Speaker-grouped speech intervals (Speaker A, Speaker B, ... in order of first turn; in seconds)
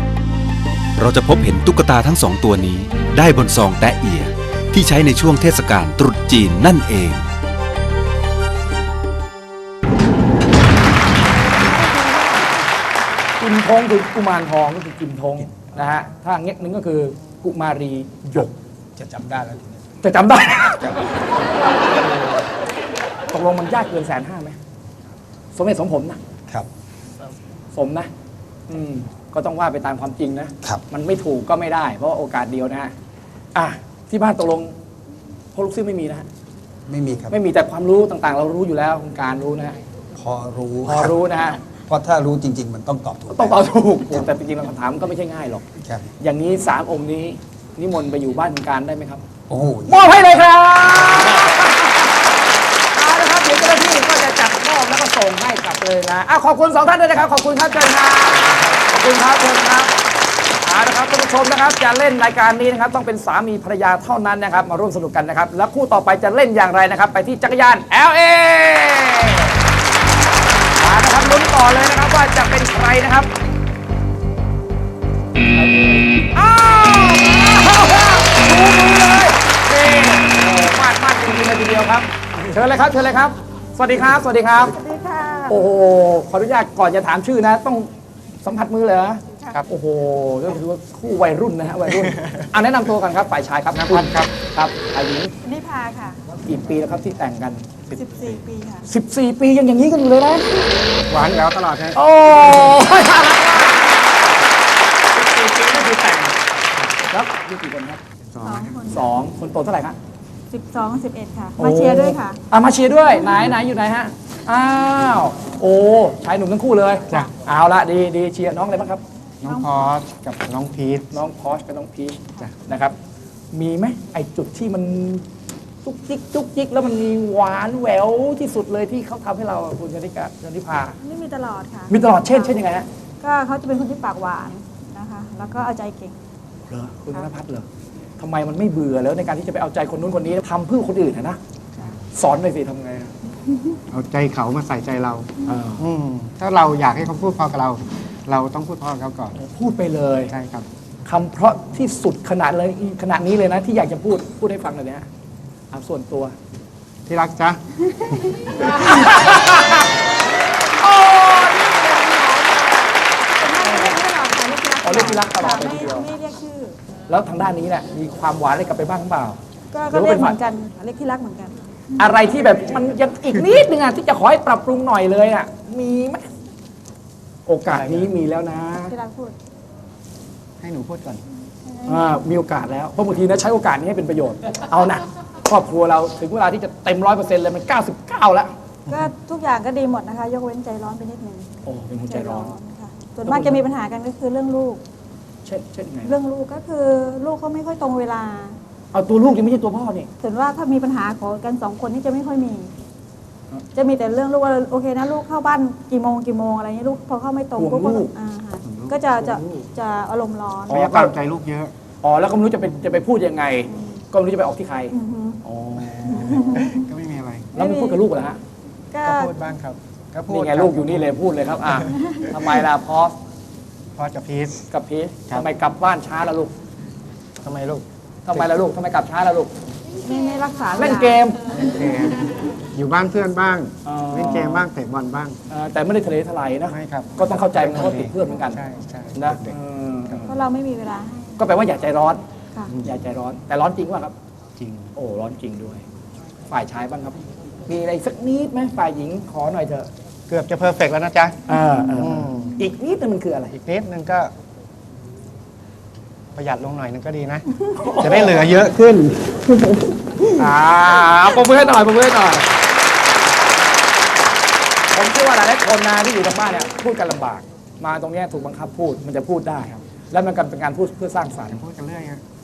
Speaker A: 1.0-7.2
Speaker B: 11.4-12.6, 84.6-85.6, 95.4-96.2, 97.9-98.8, 108.4-109.1, 110.5-112.4, 119.5-119.8, 131.0-132.6, 133.2-136.2, 163.3-166.8, 169.7-172.3, 178.9-179.3, 181.7-182.1, 188.9-194.8, 196.0-198.6, 200.2-202.7, 203.7-210.9, 213.7-214.0, 214.9-215.4, 216.1-216.8, 217.5-218.0, 218.9-219.3, 221.9-222.2, 230.0-231.2, 240.2-241.4
Speaker C: 13.4-18.5, 20.0-21.0, 21.8-22.4, 23.3-24.6, 25.5-26.2, 27.7-28.1, 28.7-32.9, 33.5-34.7, 35.5-36.3, 37.3-39.8, 40.8-41.6, 43.3-45.6, 46.2-49.2, 49.9-52.1, 52.9-59.9, 60.6-69.5, 70.8-73.3, 75.4-84.7, 85.5-87.9, 88.4-95.3, 96.4-97.7, 98.8-100.7, 101.9-104.0, 105.1-106.4, 106.9-108.0, 108.9-110.0, 111.6-119.0, 121.1-122.9, 123.5-125.2, 125.8-131.0, 131.9-132.9, 136.7-137.7, 138.2-141.4, 142.1-143.1, 145.4-145.8, 149.3-150.3, 151.1-155.1, 155.7-156.3, 158.6-159.9, 160.8-162.5, 163.6-164.0, 164.8-166.1, 167.1-169.4, 169.9-170.3, 172.0-176.3, 177.4-178.9, 181.8-188.5, 191.6-192.5, 193.2-193.6, 195.4-196.1, 198.9-200.1, 207.6-208.1, 210.7-211.1, 212.0-216.5, 217.5-218.4, 220.3-223.2, 224.7-226.5, 228.3-229.5, 230.8-231.4, 233.8-234.7, 235.5-238.6, 239.1-240.4, 241.4-242.2, 242.8-244.1, 244.9-245.8, 246.5-249.9, 251.5-253.6, 257.8-258.4, 260.4-262.5, 264.9-271.6
Speaker D: 18.9-19.9, 20.6-21.0, 36.9-37.4, 40.1-41.1, 41.9-43.7, 45.8-46.1, 49.5-50.3, 258.3-260.2
Speaker E: 92.0-92.5, 93.7-94.3, 101.1-102.8, 108.3-108.8, 119.4-121.1, 143.9-149.3, 150.3-150.7, 157.1-157.6, 177.7-178.1, 180.6-181.2, 208.6-209.7, 210.7-211.7, 215.8-217.5, 219.0-221.2, 223.9-224.6, 227.4-227.8, 231.5-235.4, 236.7-240.2, 242.7-243.0, 244.6-244.9, 250.3-251.4, 251.9-252.6, 253.5-254.3, 256.3-259.0, 271.5-272.2